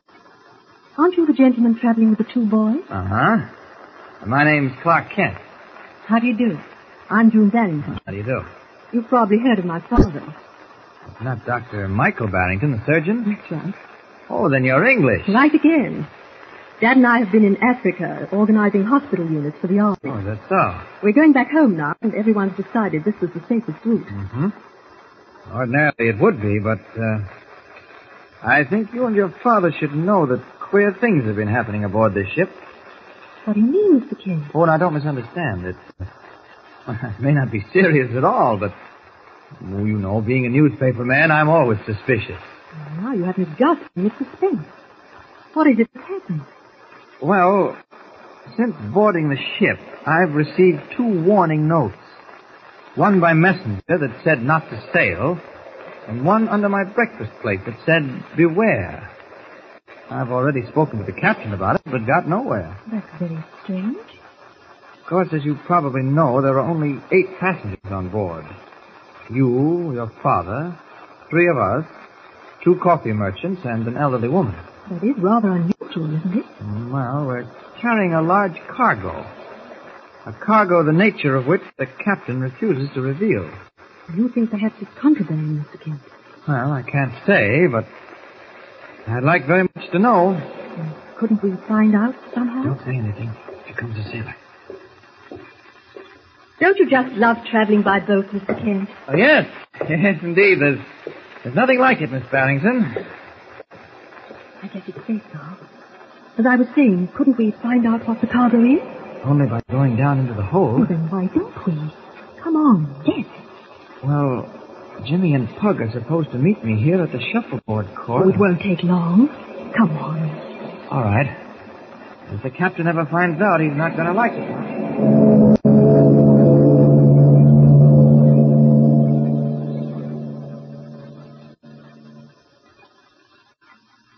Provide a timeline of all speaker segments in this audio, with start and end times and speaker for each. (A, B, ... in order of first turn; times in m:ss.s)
0:01.0-0:02.9 A
0:02.9-0:03.5 B
0:04.2-0:05.4 B
0:06.0-0:07.9 A
0:07.9-0:08.5 B
0:08.9-0:10.4 A
0:11.2-0:13.3 B
0:13.2-0:13.8 A
0:14.3-0:15.4 B
0:15.3-0:16.1 A
0:16.8-0:20.2 A
0:20.0-0:20.8 B
0:21.0-0:24.1 A
0:24.1-0:24.5 B
0:25.5-0:27.3 B
0:28.4-0:32.6 B
0:33.4-0:34.5 A
0:34.5-0:36.0 B
0:36.9-0:38.7 B
0:39.6-0:42.5 B
0:42.7-0:44.7 A
0:45.5-0:46.5 A
0:47.2-0:47.8 B
0:48.5-0:52.2 B
0:52.9-0:55.4 B
0:56.1-0:59.1 B
1:00.1-1:02.8 B
1:02.9-1:04.2 A
1:05.0-1:08.5 B
1:09.3-1:10.8 B
1:11.3-1:11.9 B
1:12.6-1:14.6 B
1:14.9-1:16.5 A
1:16.6-1:19.3 B
1:20.2-1:23.6 B
1:24.1-1:26.1 A
1:26.4-1:27.9 B
1:29.0-1:30.4 B
1:30.8-1:32.8 A
1:32.6-1:34.4 B
1:36.6-1:39.0 A
1:39.1-1:40.9 B
1:41.4-1:43.0 B
1:44.6-1:45.6 A
1:46.4-1:48.9 A
1:49.2-1:50.9 B
1:50.8-1:53.3 A
1:54.0-1:58.4 B
1:58.2-2:00.4 A
2:00.9-2:01.3 B
2:02.3-2:04.7 B